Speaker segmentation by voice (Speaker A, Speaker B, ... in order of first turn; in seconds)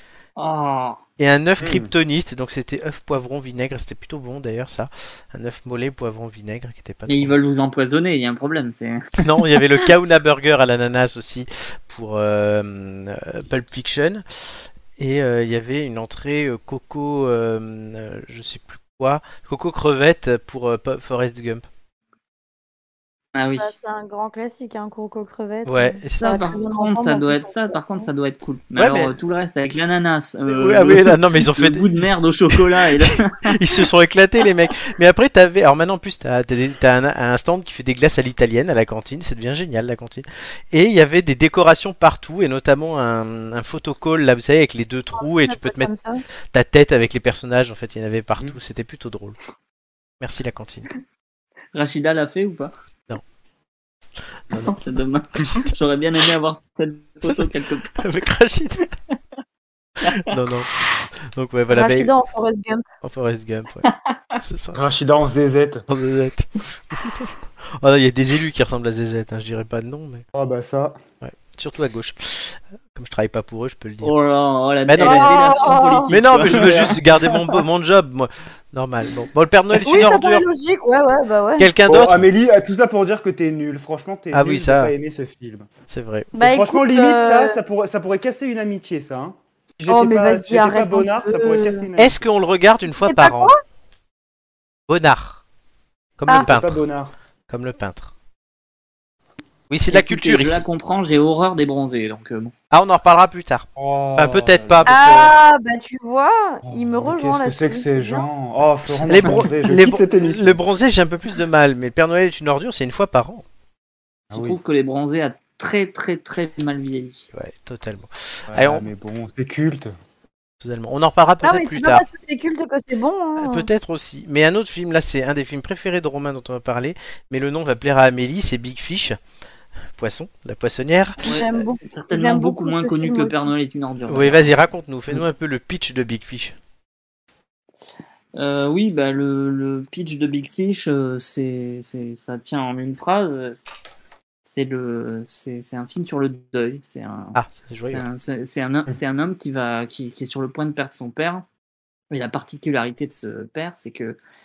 Speaker A: 0.4-1.0, 7.1-9.8, 23.3-23.7, 26.2-33.6, 51.7-52.7, 54.5-58.1, 60.0-60.4, 63.8-64.3, 74.0-77.0, 99.9-102.5, 114.3-117.3, 131.2-134.6, 138.3-143.6, 144.4-147.4, 147.9-151.4, 152.1-154.2
Speaker B: 1.2-7.3, 9.2-21.6, 25.6-26.4, 28.8-29.1, 30.5-45.9, 46.5-49.4, 50.2-50.9, 58.0-58.8, 60.0-60.7, 61.3-62.1, 63.0-63.9, 64.4-64.8, 65.9-70.2, 71.2-74.1, 74.8-75.5, 76.1-80.5, 81.6-82.3, 84.3-84.9, 85.9-86.3, 92.0-93.5, 94.9-95.4, 96.2-96.8, 97.5-98.1, 99.7-100.6, 102.7-105.3, 109.0-113.4, 117.3-118.9, 120.6-122.0, 123.4-129.2, 130.0-131.2, 134.1-136.6, 147.3-148.0
Speaker C: 1.6-1.9, 64.7-65.8, 70.3-71.0, 76.5-77.4, 81.9-85.7, 86.3-92.2, 96.3-97.1, 103.8-105.0, 106.6-110.6, 114.3-114.6, 118.5-119.9
Speaker D: 23.6-28.1, 45.2-46.2, 61.7-62.8, 75.0-76.1, 79.8-81.7, 86.3-87.6, 89.9-91.8, 93.0-93.6, 104.8-108.3, 121.4-123.7, 131.2-133.5